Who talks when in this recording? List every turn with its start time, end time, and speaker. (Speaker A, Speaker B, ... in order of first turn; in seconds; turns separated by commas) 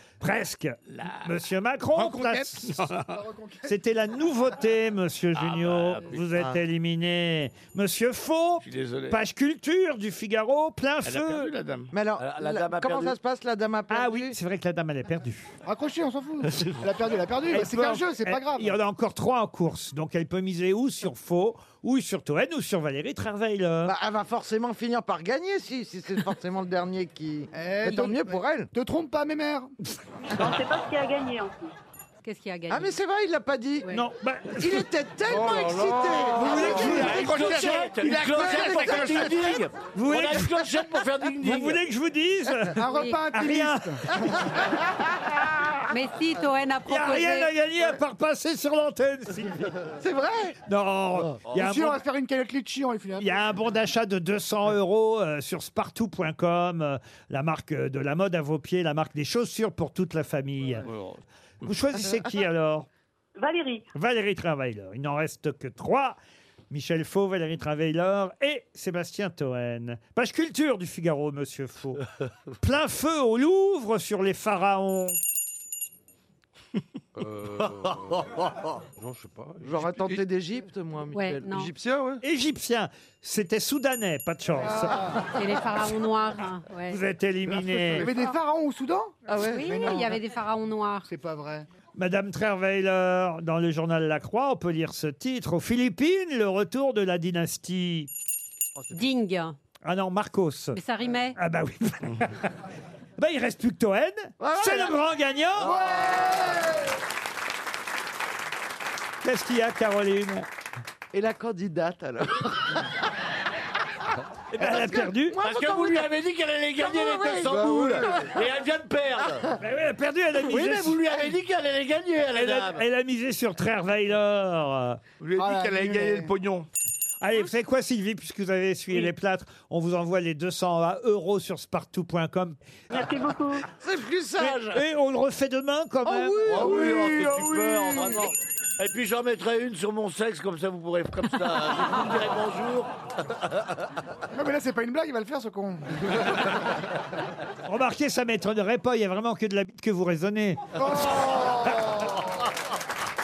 Speaker A: 0.2-2.8, Speaker B: 0.9-1.3, Speaker B: 1.9-3.2, Speaker C: 3.1-3.7, Speaker A: 3.7-11.5, Speaker B: 5.3-6.3, Speaker B: 8.6-9.2, Speaker B: 11.0-13.1, Speaker D: 11.9-14.4, Speaker A: 13.9-15.5, Speaker C: 15.6-18.8, Speaker A: 17.5-23.9, Speaker D: 23.8-28.7, Speaker C: 27.5-29.7, Speaker E: 30.4-31.7, Speaker F: 32.2-33.0, Speaker D: 32.7-33.9, Speaker A: 33.9-34.9, Speaker D: 34.5-37.2, Speaker B: 35.3-41.8, Speaker C: 36.2-39.5, Speaker A: 36.4-37.4, Speaker D: 38.2-39.5, Speaker A: 39.9-40.7, Speaker A: 41.4-44.6, Speaker C: 42.7-44.7, Speaker F: 42.8-43.2, Speaker A: 45.4-45.7, Speaker F: 45.8-47.5, Speaker A: 46.9-49.9, Speaker D: 50.0-50.5, Speaker A: 50.7-52.0, Speaker C: 51.5-53.4, Speaker A: 53.2-61.1, Speaker A: 61.6-62.9, Speaker E: 63.4-63.9, Speaker A: 63.9-66.2, Speaker A: 66.7-75.2, Speaker G: 77.2-80.2, Speaker D: 79.6-81.9, Speaker F: 81.1-81.7, Speaker G: 81.8-82.2, Speaker A: 82.2-85.2, Speaker C: 84.6-85.3, Speaker F: 85.3-87.0, Speaker A: 86.8-88.1, Speaker C: 87.8-90.2, Speaker D: 89.3-89.7, Speaker F: 89.3-91.1, Speaker C: 91.0-91.7, Speaker A: 92.0-98.1, Speaker F: 98.9-99.5, Speaker A: 99.8-100.8, Speaker F: 100.7-101.4, Speaker A: 101.3-102.5, Speaker A: 103.2-105.8, Speaker D: 104.4-104.9, Speaker C: 105.6-106.7, Speaker D: 106.0-106.3, Speaker A: 109.2-110.5, Speaker D: 111.1-112.9, Speaker A: 114.5-115.4, Speaker D: 114.6-116.1, Speaker B: 115.3-119.5, Speaker F: 116.8-117.4, Speaker D: 116.9-118.1, Speaker A: 119.6-121.0, Speaker B: 120.5-122.8, Speaker A: 122.3-125.0, Speaker B: 125.2-126.7, Speaker C: 125.3-126.3, Speaker A: 127.2-132.6, Speaker E: 132.9-133.7, Speaker D: 133.7-134.6, Speaker A: 134.4-136.7, Speaker C: 136.0-138.3, Speaker B: 136.5-138.1, Speaker B: 138.8-142.9, Speaker C: 144.3-146.0, Speaker A: 147.6-150.6, Speaker C: 150.8-152.2